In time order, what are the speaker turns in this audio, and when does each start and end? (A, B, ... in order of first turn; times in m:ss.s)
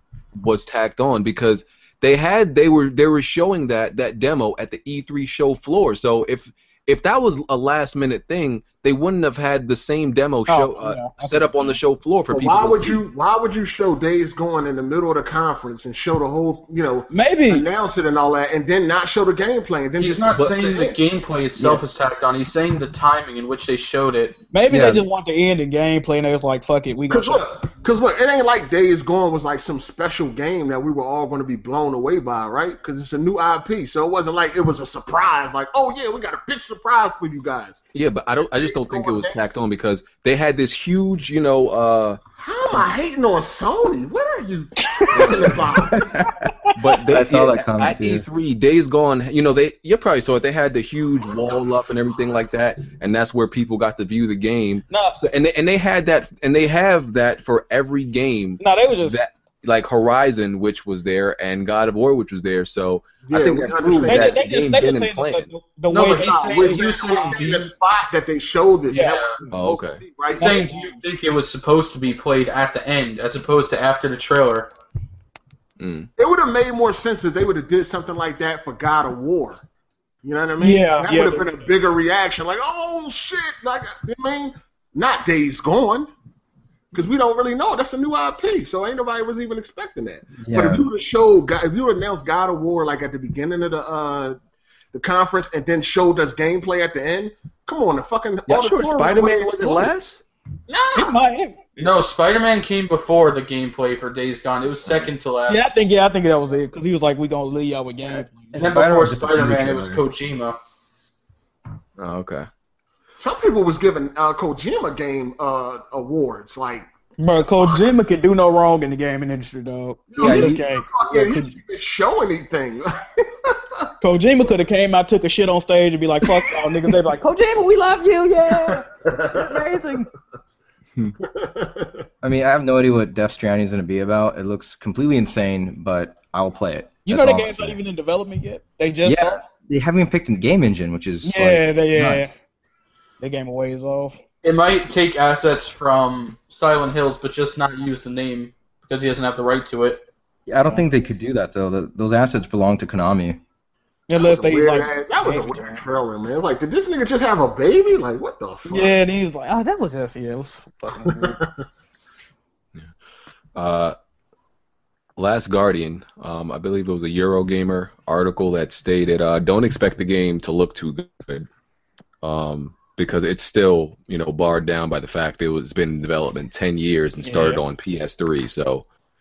0:00.4-0:13.0 A
0:10.5-0:11.8 B
0:12.3-0:21.0 C
0:17.1-0:17.7 B
0:20.0-0:24.4 D
0:24.5-0:27.5 B
0:24.7-0:25.1 E
0:27.1-0:37.8 C
0:37.9-0:42.2 A
0:38.6-0:39.4 C
0:42.4-0:46.1 C
0:45.1-0:45.7 A
0:45.8-0:46.1 E
0:46.2-0:46.7 B
0:46.8-1:05.5 A
0:47.1-0:48.3 E
0:54.9-0:55.2 B
0:58.6-0:59.2 B
1:03.3-1:04.4 C
1:04.0-1:07.5 B
1:05.9-1:07.7 D
1:06.4-1:10.7 C
1:08.9-1:09.2 B
1:08.9-1:09.4 D
1:09.5-1:10.0 A
1:10.3-1:11.0 B
1:10.4-1:14.7 D
1:15.8-1:16.1 A
1:16.2-1:19.6 C
1:20.2-1:26.1 C
1:20.6-1:21.6 B
1:26.9-1:34.4 C
1:30.4-1:30.9 E
1:34.9-1:39.9 C
1:38.5-1:40.2 A
1:40.7-1:41.2 C
1:41.0-1:41.7 B
1:41.8-1:45.7 D
1:45.5-1:48.7 B
1:48.5-1:50.0 E
1:48.6-1:50.6 D
1:52.0-1:52.5 A
1:53.2-1:56.9 C
1:57.2-2:01.5 B
1:57.6-1:57.9 C
2:00.1-2:03.9 C
2:00.2-2:00.6 E
2:04.0-2:10.1 B
2:09.1-2:09.7 C
2:11.2-2:12.0 C
2:12.2-2:17.8 E
2:17.1-2:19.4 B
2:19.0-2:22.2 E
2:21.2-2:22.3 B
2:23.2-2:24.2 B
2:24.4-2:30.1 D
2:30.5-2:33.4 E
2:34.1-2:35.8 B
2:34.2-2:39.0 C
2:38.7-2:41.4 B
2:41.0-2:41.6 C
2:43.6-2:44.0 A
2:45.2-2:51.5 A
2:52.2-2:58.9 A
2:57.2-2:57.6 B